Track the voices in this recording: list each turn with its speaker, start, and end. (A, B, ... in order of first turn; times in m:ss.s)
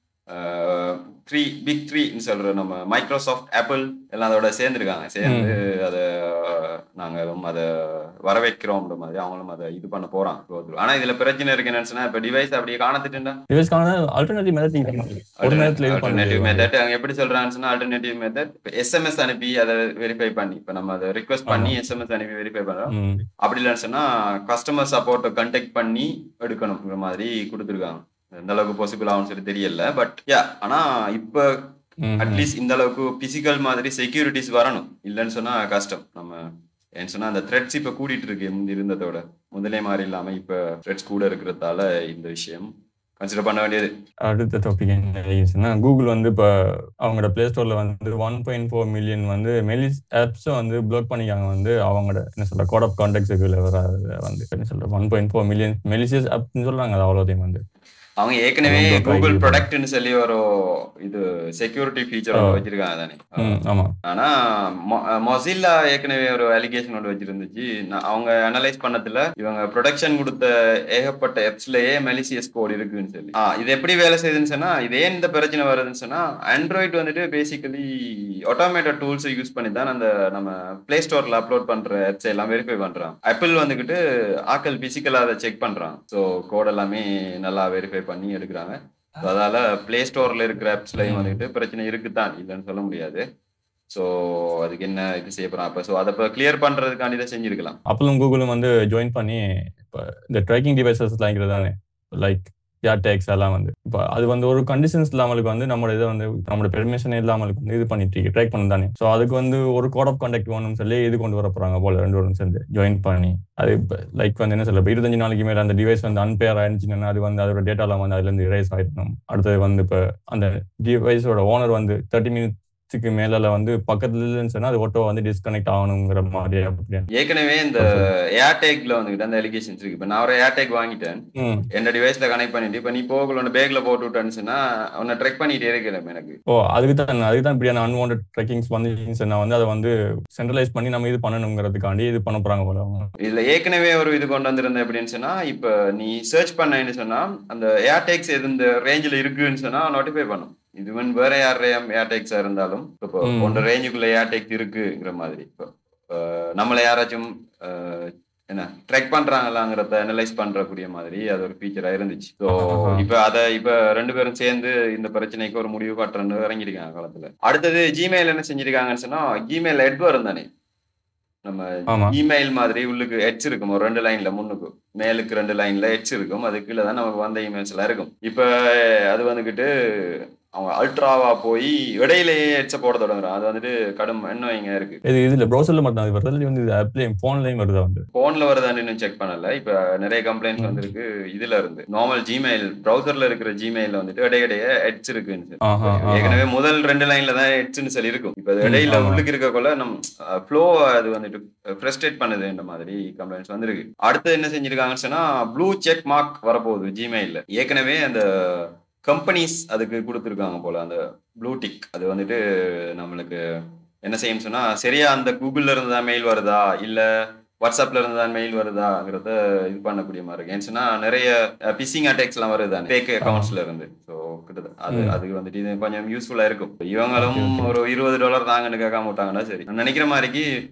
0:00.3-0:13.4 A
0:05.2-0:05.5 B
0:13.5-0:16.7 B
0:15.4-0:31.5 A
0:21.5-0:21.8 B
0:22.9-0:23.2 B
0:32.0-0:32.5 B
0:32.2-0:36.4 A
0:37.0-0:43.9 A
0:44.3-0:57.6 B
0:58.2-1:17.8 A
0:58.6-0:59.6 B
1:02.3-1:02.6 B
1:03.4-1:03.9 B
1:18.5-1:33.2 A
1:30.9-1:31.4 B
1:33.9-1:37.8 A
1:37.9-2:07.1 B
2:07.1-2:11.2 A
2:07.8-2:08.1 B
2:11.4-2:11.6 B
2:11.7-2:16.4 A
2:16.5-2:23.1 B
2:23.2-2:50.5 A
2:33.2-2:33.6 B
2:42.5-2:43.1 B
2:51.4-3:05.0 A
2:51.9-2:52.1 B
3:05.0-3:08.0 B
3:08.1-3:33.4 A
3:10.6-3:10.8 B
3:15.6-3:16.4 B
3:18.6-3:19.2 B
3:34.0-3:37.0 A
3:37.6-3:50.4 A
3:43.2-3:43.5 B
3:44.9-3:45.2 B
3:47.1-3:47.7 B